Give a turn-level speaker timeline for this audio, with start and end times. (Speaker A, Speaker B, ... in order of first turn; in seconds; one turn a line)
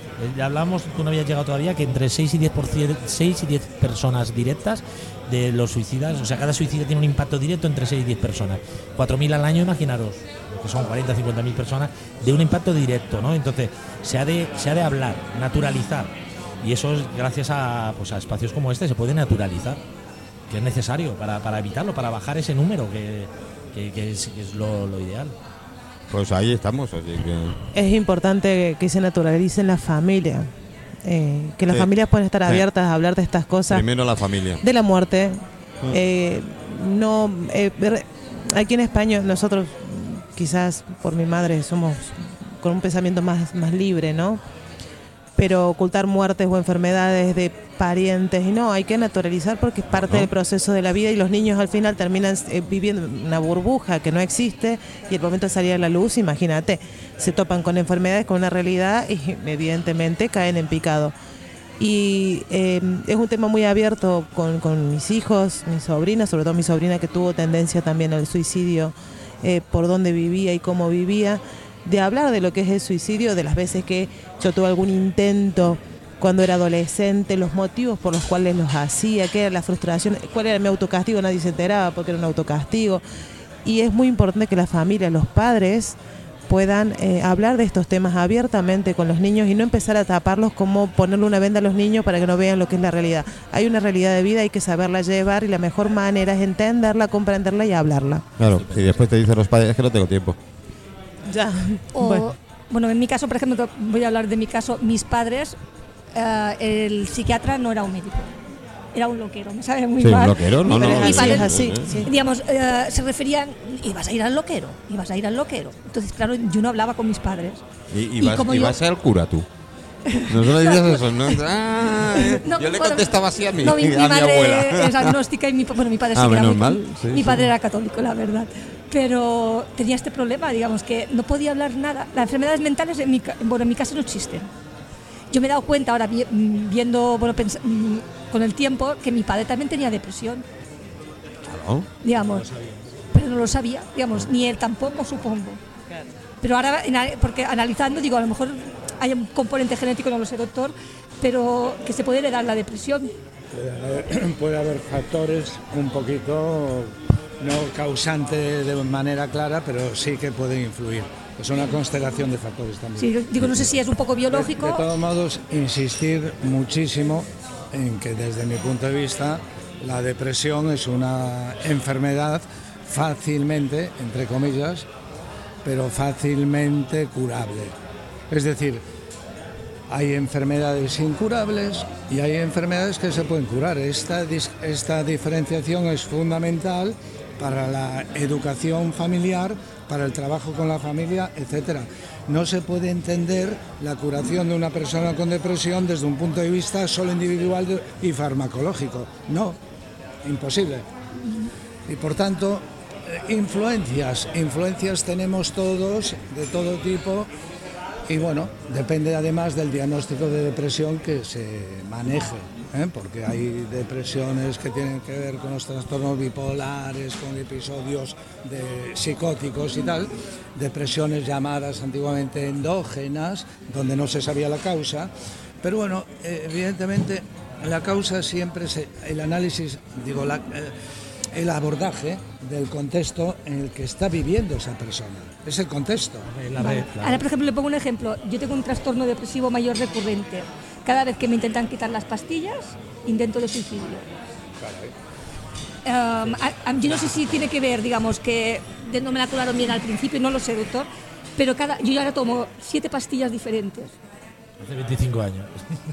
Speaker A: 0.2-19.8
Speaker A: 20.5-25.3
Speaker B: 26.1-27.6
Speaker C: 27.7-30.5
Speaker C: 31.0-33.8
Speaker B: 33.7-34.6
Speaker C: 34.6-44.4
Speaker C: 45.4-61.1
Speaker B: 49.9-50.3
Speaker C: 61.8-83.0
Speaker C: 83.6-86.0
Speaker C: 86.5-98.2
Speaker B: 98.4-100.4
Speaker A: 98.5-99.1
Speaker C: 101.3-102.3
Speaker D: 101.9-105.6
Speaker D: 106.1-108.3
Speaker D: 108.9-117.6
Speaker B: 110.0-112.0
Speaker C: 110.6-112.1
Speaker B: 117.9-119.5
Speaker D: 118.2-118.8
Speaker D: 120.1-121.4
Speaker B: 120.2-125.2
Speaker D: 122.1-134.5
Speaker B: 126.1-127.5
Speaker D: 135.3-140.4
Speaker B: 141.4-141.9
Speaker D: 142.0-142.5
Speaker A: 142.2-142.9
Speaker D: 143.1-145.6
Speaker D: 146.4-153.1
Speaker E: 153.5-163.6
Speaker D: 163.0-164.9
Speaker E: 164.3-174.9
Speaker E: 175.6-177.8
Speaker E: 178.3-178.8
Speaker E: 179.9-199.6
Speaker E: 200.2-200.9
Speaker E: 201.9-207.3
Speaker E: 208.1-225.1
Speaker E: 225.6-230.7
Speaker E: 231.3-236.3
Speaker A: 236.3-237.2
Speaker D: 236.6-244.1
Speaker E: 244.6-244.9
Speaker D: 245.8-253.9
Speaker A: 254.6-255.8